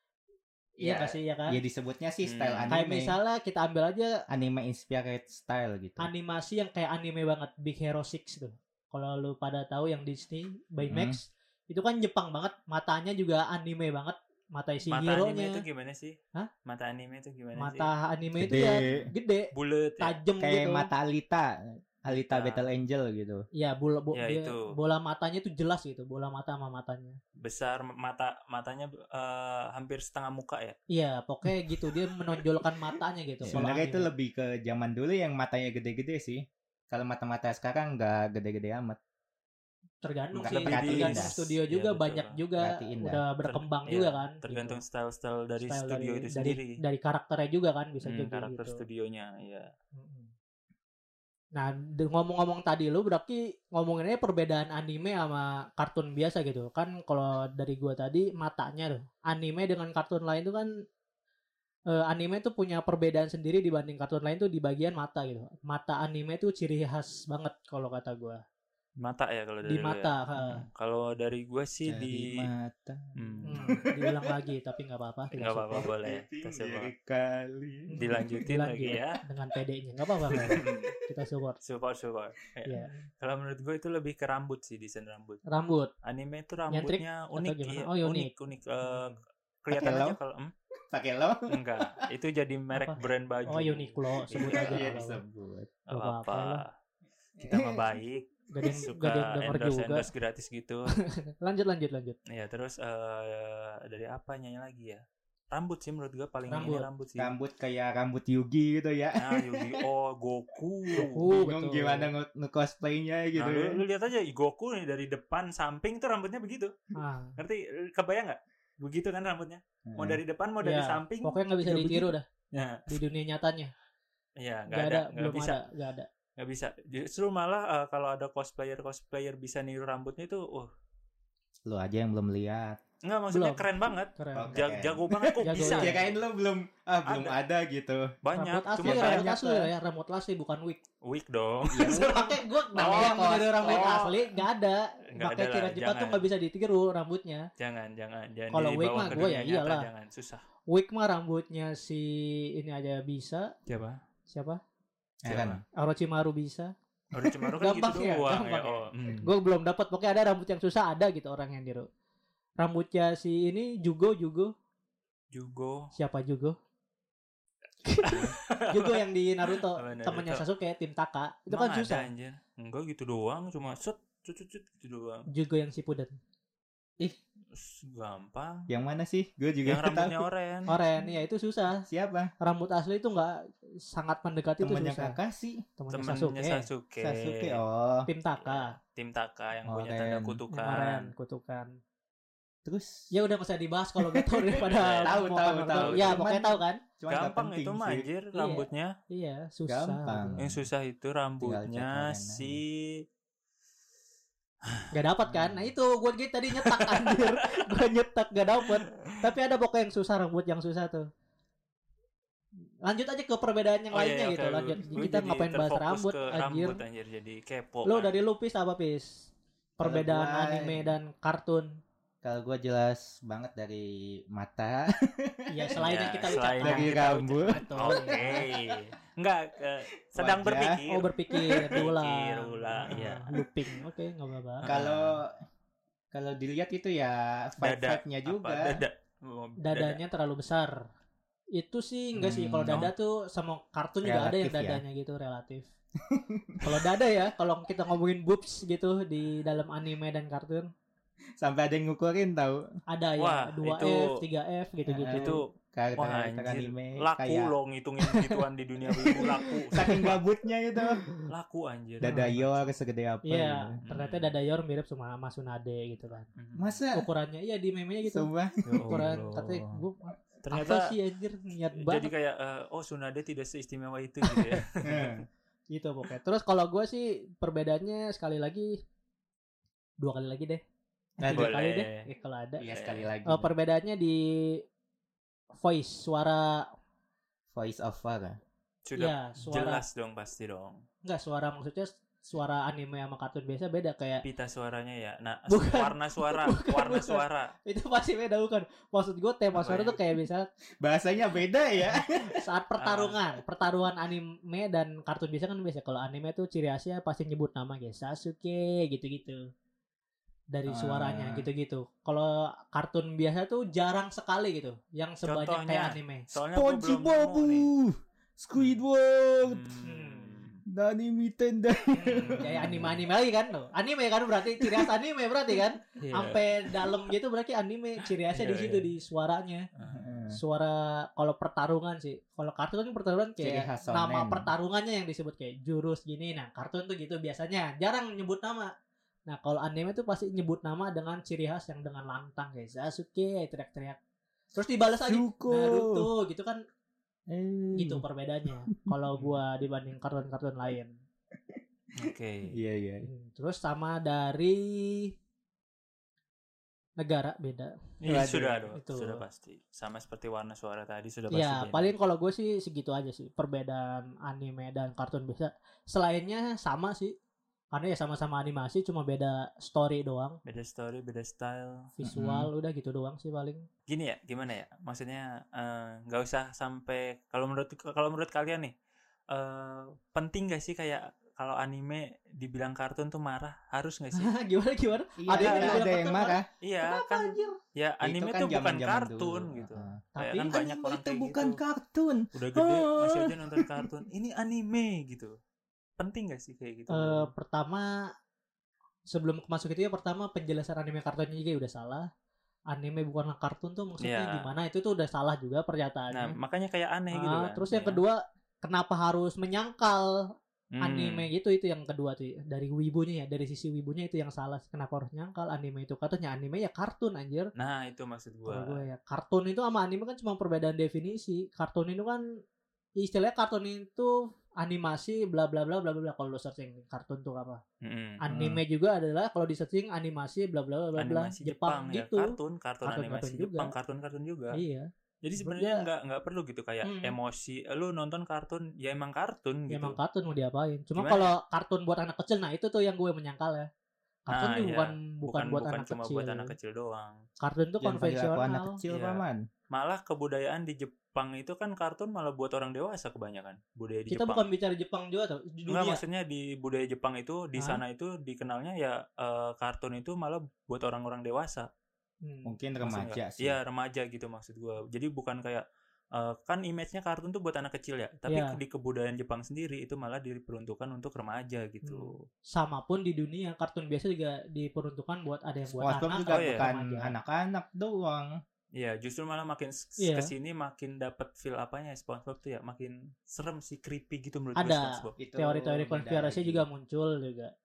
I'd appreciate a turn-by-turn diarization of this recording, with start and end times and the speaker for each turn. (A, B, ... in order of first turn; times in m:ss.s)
0:00.8-0:03.2 A
0:00.8-0:01.6 B
0:02.2-0:02.7 C
0:02.7-0:04.2 B
0:04.3-0:06.1 A
0:06.0-0:15.6 B
0:10.8-0:11.2 A
0:14.9-0:17.9 C
0:17.6-0:20.9 B
0:18.4-0:19.1 A
0:18.6-0:19.0 C
0:19.5-0:20.2 C
0:20.4-0:23.4 A
0:22.1-0:22.6 C
0:23.5-0:27.2 B
0:24.1-0:24.7 C
0:27.4-0:30.8 C
0:30.9-0:34.1 B
0:33.5-0:39.0 A
0:40.0-0:44.8 B
0:40.3-0:41.4 A
0:40.4-0:42.4 C
0:42.6-0:43.2 A
0:43.4-0:46.8 C
0:45.6-0:48.8 B
0:48.0-0:49.7 C
0:49.9-0:50.3 B
0:51.5-1:00.7 B
1:01.9-1:08.4 B
1:09.0-1:12.5 C
1:09.7-1:10.6 B
1:11.8-1:14.1 A
1:13.2-1:13.8 C
1:13.4-1:15.9 B
1:15.3-1:16.9 C
1:15.8-1:18.0 A
1:17.9-1:21.6 B
1:18.0-1:19.2 C
1:20.3-1:21.0 A
1:20.3-1:20.9 C
1:21.6-1:25.4 C
1:22.6-1:23.0 B
1:25.5-1:25.9 B
1:26.0-1:30.5 C
1:26.7-1:28.3 B
1:28.8-1:29.2 B
1:29.7-1:30.2 A
1:30.9-1:32.0 A
1:31.5-1:35.0 C
1:32.7-1:35.2 B
1:34.3-1:35.7 A
1:35.9-1:36.6 B
1:35.9-1:36.7 C
1:37.4-1:37.8 A
1:37.4-1:40.9 C
1:38.5-1:40.1 B
1:41.1-1:42.2 B
1:42.3-1:47.3 C
1:46.5-1:46.9 B
1:47.2-1:49.8 A
1:49.2-1:51.3 C
1:50.9-1:53.8 A
1:51.0-1:52.1 B
1:53.4-1:56.7 C
1:56.9-1:57.4 B
1:57.4-2:02.9 C
1:59.9-2:00.2 A
2:00.6-2:02.2 B
2:02.9-2:03.7 B
2:04.4-2:05.6 C
2:04.7-2:06.1 B
2:06.4-2:10.7 C
2:11.6-2:12.8 A
2:13.0-2:16.1 C
2:13.3-2:13.6 B
2:14.2-2:14.6 B
2:14.3-2:18.1 A
2:15.4-2:16.0 B
2:17.0-2:17.4 C
2:18.2-2:19.3 C
2:18.3-2:20.8 B
2:18.8-2:19.7 A
2:21.0-2:24.3 C
2:21.7-2:24.1 A
2:21.8-2:27.5 B
2:25.1-2:26.3 C
2:27.6-2:30.4 C
2:28.5-2:29.9 B
2:30.7-2:33.5 B
2:33.7-2:34.0 C
2:34.3-2:34.6 B
2:35.2-2:35.6 A
2:35.2-2:35.6 C
2:35.8-2:41.9 B
2:37.1-2:39.3 C
2:42.6-2:44.5 B
2:45.3-2:45.9 C
2:45.9-2:46.6 B
2:47.8-2:52.1 B
2:48.0-2:50.4 C
2:51.5-2:55.3 C
2:55.3-2:56.1 B
2:57.5-2:58.7 C
2:58.7-3:00.3 A
2:59.6-3:00.7 C
3:00.7-3:01.8 B
3:01.9-3:02.3 A
3:02.4-3:05.2 B
3:04.6-3:05.7 A
3:05.8-3:06.7 B
3:05.9-3:07.6 C
3:07.0-3:08.1 A
3:08.1-3:08.7 B
3:08.4-3:11.1 C
3:09.6-3:10.4 A
3:10.5-3:11.7 B
3:12.6-3:13.1 A
3:13.1-3:16.8 B
3:14.0-3:18.1 A
3:14.6-3:16.2 C
3:17.1-3:19.0 C
3:18.3-3:20.4 B
3:19.7-3:20.6 A
3:20.4-3:23.0 C
3:21.4-3:22.6 A
3:24.9-3:31.1 B
3:25.3-3:25.6 A
3:26.5-3:27.6 C
3:28.6-3:29.2 C
3:32.8-3:36.8 B
3:33.9-3:38.1 C
3:37.8-3:41.8 B
3:39.8-3:40.9 A
3:42.2-3:48.8 A
3:45.5-3:48.4 B
3:45.8-3:51.1 C
3:50.1-3:50.8 A
3:50.9-3:54.7 B
3:51.5-3:51.8 A
3:51.6-3:53.4 C
3:54.6-3:55.2 C
3:54.6-3:55.4 A
3:56.1-3:58.8 A
3:57.6-4:00.0 C
3:59.6-4:00.8 B
4:01.5-4:05.7 B
4:02.2-4:02.9 A
4:04.0-4:04.8 A
4:06.0-4:06.7 A
4:06.6-4:10.7 B
4:11.4-4:12.7 A
4:12.9-4:15.4 B
4:13.2-4:14.2 C
4:14.9-4:17.5 A
4:15.1-4:20.2 C
4:19.1-4:21.0 A
4:19.1-4:19.9 B
4:21.0-4:21.3 B
4:21.3-4:22.7 C
4:22.0-4:23.8 A
4:22.0-4:22.3 B
4:23.2-4:26.3 B
4:23.8-4:24.3 C
4:26.4-4:26.8 C
4:26.6-4:27.0 A
4:26.9-4:28.3 B
4:28.0-4:29.0 A
4:28.6-4:29.8 C
4:28.9-4:32.1 B
4:30.4-4:30.9 C
4:31.7-4:35.2 C
4:34.8-4:35.2 A
4:35.7-4:38.8 B
4:40.0-4:40.6 B
4:41.2-4:41.5 A
4:41.2-4:42.6 B
4:41.3-4:42.1 C
4:42.6-4:43.5 A
4:42.7-4:43.1 C
4:43.2-4:44.6 B
4:45.6-4:46.7 B
4:47.5-4:48.4 A
4:48.8-4:50.8 C
4:49.0-4:49.8 B
4:51.0-4:54.2 B
4:54.2-4:57.5 C
4:55.5-5:00.5 B
4:59.5-5:00.0 C
5:00.8-5:02.4 A
5:01.9-5:09.4 B
5:02.8-5:03.2 C
5:10.5-5:16.3 B
5:10.7-5:11.5 A
5:15.2-5:17.7 C
5:16.5-5:19.7 A
5:18.6-5:18.8 C
5:19.4-5:20.6 C
5:19.8-5:20.4 B
5:20.7-5:23.0 A
5:21.9-5:29.7 B
5:22.1-5:22.8 C
5:24.6-5:24.9 A
5:26.0-5:26.8 C
5:28.3-5:28.9 C
5:29.8-5:30.0 C
5:29.9-5:30.4 A
5:30.3-5:38.7 B
5:33.4-5:34.5 A
5:39.3-5:44.0 B
5:44.5-5:46.6 B
5:45.0-5:46.1 A
5:47.3-5:48.8 A
5:47.7-5:50.9 B
5:51.5-5:53.1 A
5:52.0-5:52.6 C
5:53.0-5:55.1 B
5:57.0-5:57.7 B
5:58.0-6:01.9 C
5:58.0-5:58.6 A
5:58.8-5:59.2 B
6:01.3-6:07.1 B
6:07.7-6:10.4 B
6:10.4-6:11.9 C
6:12.0-6:13.6 B
6:12.0-6:12.5 A
6:13.9-6:18.7 C
6:19.3-6:24.3 C
6:24.1-6:27.6 B
6:25.2-6:26.5 A
6:25.4-6:25.9 C
6:26.6-6:31.6 C
6:28.0-6:33.8 A
6:30.1-6:30.6 B
6:32.3-6:35.3 C
6:36.0-6:37.3 C
6:36.9-6:38.0 B
6:39.1-6:42.1 B
6:42.7-6:46.3 B
6:44.0-6:44.5 C
6:46.1-6:48.0 C
6:47.1-6:50.2 B
6:50.7-6:51.3 C
6:50.8-6:57.5 B
6:57.6-6:58.9 C
6:58.5-7:02.2 B
7:03.0-7:07.6 B
7:07.8-7:08.2 C
7:08.2-7:13.7 B
7:08.3-7:08.6 A
7:11.0-7:14.6 C
7:14.5-7:14.9 B
7:15.2-7:20.0 C
7:15.4-7:15.8 B
7:16.8-7:17.1 B
7:19.7-7:23.7 B
7:21.0-7:21.3 C
7:24.3-7:26.5 B
7:24.3-7:27.2 C
7:27.4-7:28.8 B
7:27.8-7:29.4 A
7:28.9-7:34.4 C
7:34.1-7:36.0 B
7:35.7-7:41.7 C
7:42.2-7:42.6 B
7:42.4-7:43.6 A
7:42.8-7:52.2 C
7:48.3-7:48.5 B
7:51.8-7:57.1 B
7:55.8-7:58.3 A
7:56.3-7:56.6 C
7:58.7-8:05.2 C
8:00.0-8:00.3 B
8:04.6-8:07.5 B
8:05.2-8:06.6 A